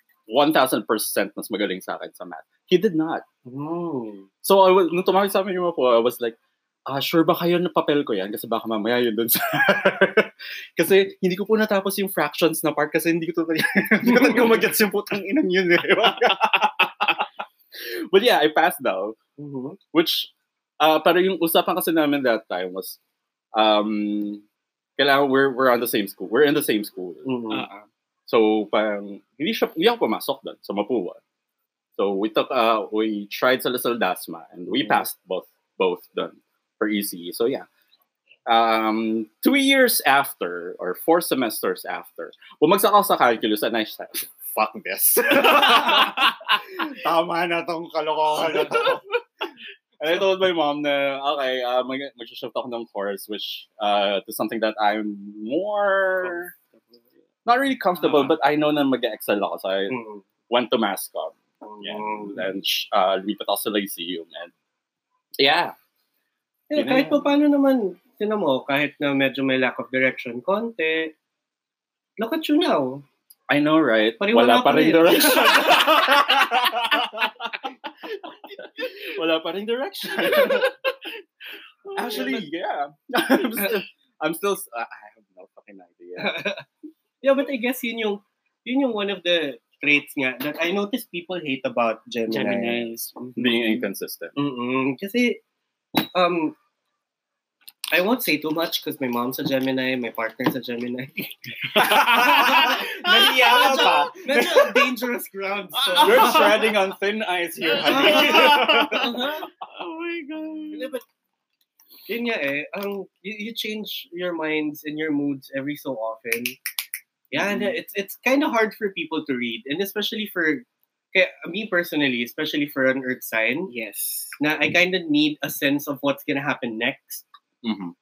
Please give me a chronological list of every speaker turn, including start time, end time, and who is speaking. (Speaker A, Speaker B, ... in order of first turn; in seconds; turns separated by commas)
Speaker A: 0.3-3.2, Speaker B: 3.4-4.3, Speaker A: 4.4-19.2, Speaker B: 19.4-19.8, Speaker A: 19.9-23.0, Speaker A: 23.5-24.4, Speaker A: 25.0-27.3, Speaker B: 27.2-27.6, Speaker C: 27.5-27.9, Speaker A: 28.3-31.2, Speaker A: 32.0-37.6, Speaker B: 34.8-35.0, Speaker A: 38.5-49.0, Speaker C: 48.7-49.0, Speaker A: 50.0-56.5, Speaker A: 57.4-60.0, Speaker C: 58.0-58.3, Speaker B: 59.9-60.2, Speaker A: 60.5-64.5, Speaker B: 61.6-62.4, Speaker A: 65.4-65.7, Speaker B: 66.7-71.1, Speaker A: 66.7-67.3, Speaker B: 72.2-73.0, Speaker A: 73.5-80.7, Speaker B: 74.2-76.0, Speaker C: 80.1-81.1, Speaker C: 81.8-82.4, Speaker A: 81.9-86.4, Speaker B: 86.2-86.7, Speaker B: 87.2-93.6, Speaker C: 92.3-93.4, Speaker A: 93.3-94.3, Speaker B: 94.3-95.4, Speaker B: 96.1-96.5, Speaker B: 97.9-106.7, Speaker C: 101.7-104.0, Speaker A: 101.7-104.9, Speaker C: 105.8-106.7, Speaker A: 106.0-109.3, Speaker C: 107.6-110.9, Speaker B: 107.8-109.5, Speaker B: 110.7-111.0, Speaker B: 112.1-116.6, Speaker B: 117.3-123.7, Speaker A: 117.4-117.7, Speaker C: 123.7-124.4, Speaker B: 124.4-127.2, Speaker A: 127.6-127.9